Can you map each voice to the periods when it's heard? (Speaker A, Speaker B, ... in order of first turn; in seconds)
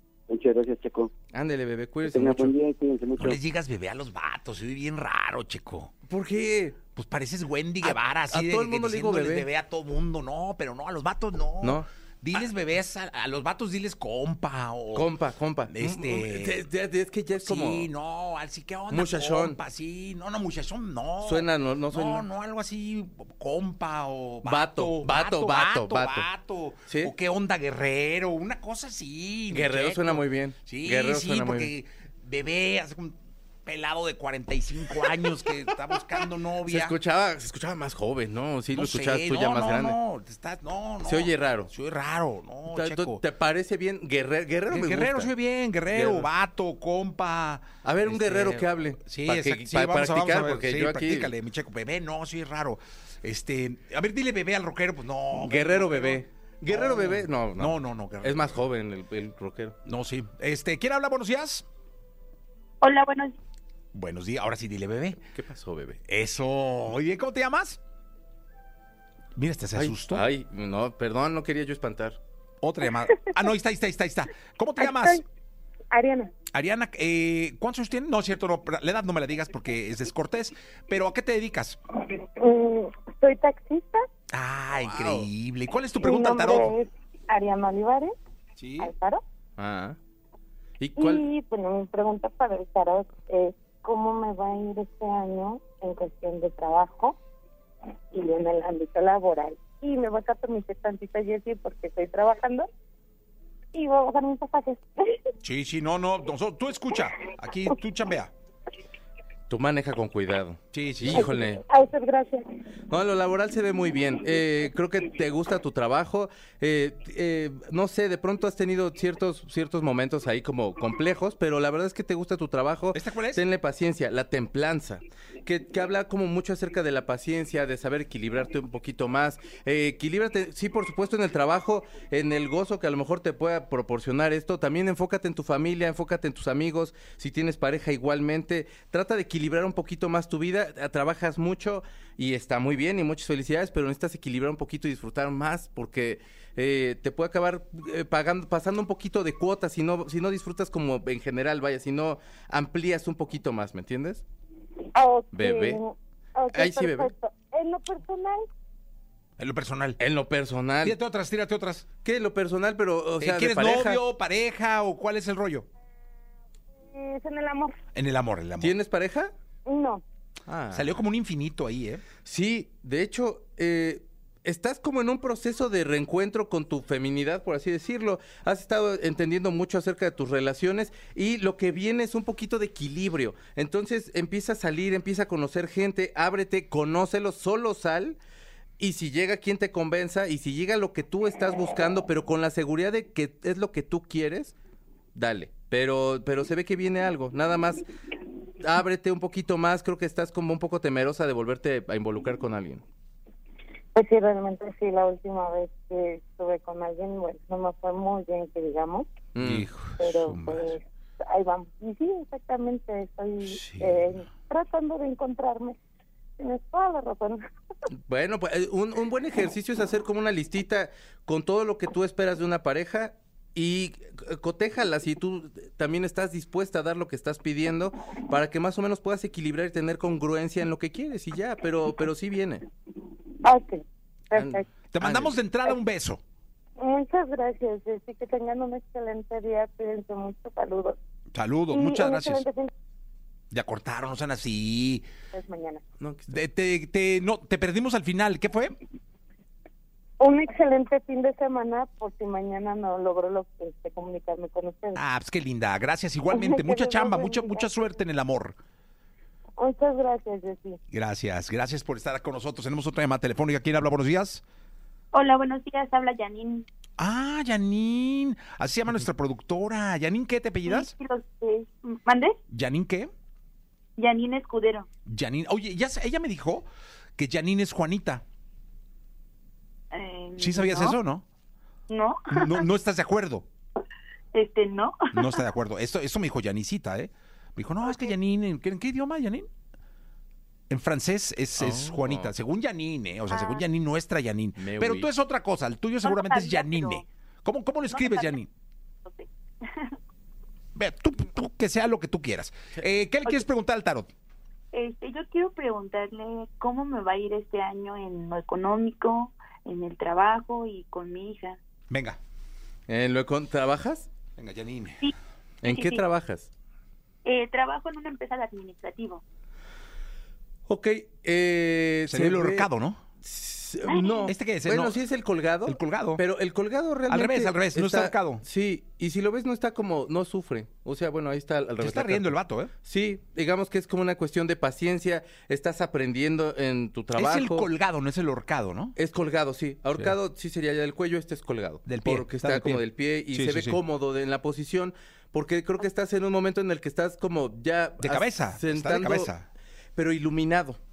Speaker A: 0.3-1.1, 2.0-3.4
Speaker B: 1.3-2.5, 6.1-6.8, 7.8-9.5, 11.6-11.9, 14.9-17.9, 18.9-19.6, 21.2-22.3, 24.4-26.3, 26.9-27.1, 29.5-31.7, 36.7-40.0, 41.0-41.7, 42.7-45.3, 45.9-46.3, 47.8-51.3, 55.4-59.8, 65.3-66.0, 69.8-72.2, 84.8-85.3, 89.6-90.0, 90.8-91.3, 109.5-111.7, 112.9-154.2, 155.3-155.8, 156.5-157.1, 160.0-161.0, 162.0-164.0, 168.6-169.3, 170.5-171.0, 172.2-188.2, 188.8-194.6, 195.2-197.8, 198.6-202.8, 209.3-209.7, 218.1-232.7, 234.3-235.4, 246.0-246.4, 291.6-292.3, 294.6-295.1, 312.9-314.1, 315.6-316.5, 320.7-322.7, 323.2-337.7, 339.0-349.3, 349.9-350.8
Speaker C: 3.2-5.9, 7.0-15.1, 15.7-16.7, 17.4-37.0, 38.7-43.2, 44.7-58.6, 59.9-61.7, 63.9-65.2, 66.1-67.8, 69.4-70.2, 72.6-75.2, 76.5-81.8, 84.3-86.8, 88.6-88.9, 105.4-108.3, 110.7-111.3, 122.9-123.4, 159.4-160.0, 160.8-161.8, 163.2-165.7, 167.9-168.8, 170.7-172.0, 209.4-210.7, 213.4-214.2, 234.9-236.2, 241.3-242.4, 243.5-245.1, 246.3-248.8, 254.9-258.6, 260.9-264.4, 267.0-270.9, 272.5-273.1, 275.1-278.2, 280.4-281.2, 282.3-283.5, 285.1-289.5, 290.7-298.5, 300.8-304.1, 311.9-312.2, 314.4-315.0, 322.1-323.0, 324.3-325.0, 325.7-326.2, 327.1-328.4, 331.8-332.7, 337.1-338.9, 341.9-343.8, 348.0-349.5
Speaker D: 62.8-63.4, 265.1-266.7, 270.7-272.4, 274.0-274.9, 279.9-281.0, 281.9-282.7, 284.3-285.4, 293.3-293.6, 296.0-297.1, 297.9-298.4, 299.1-300.0, 304.7-311.6, 315.0-316.0, 317.2-319.2, 323.9-324.3
Speaker E: 74.8-75.2, 75.9-76.3, 82.4-84.0, 86.0-88.1, 88.8-89.2, 91.0-97.2, 98.1-102.7, 103.7-105.2, 111.2-112.4, 154.9-158.4, 166.9-167.7, 169.7-170.0, 203.9-209.1, 210.0-215.8, 216.4-217.4, 233.4-234.7, 236.8-241.0, 241.7-242.7, 245.3-245.8, 250.2-255.0, 256.3-257.7, 259.6-260.8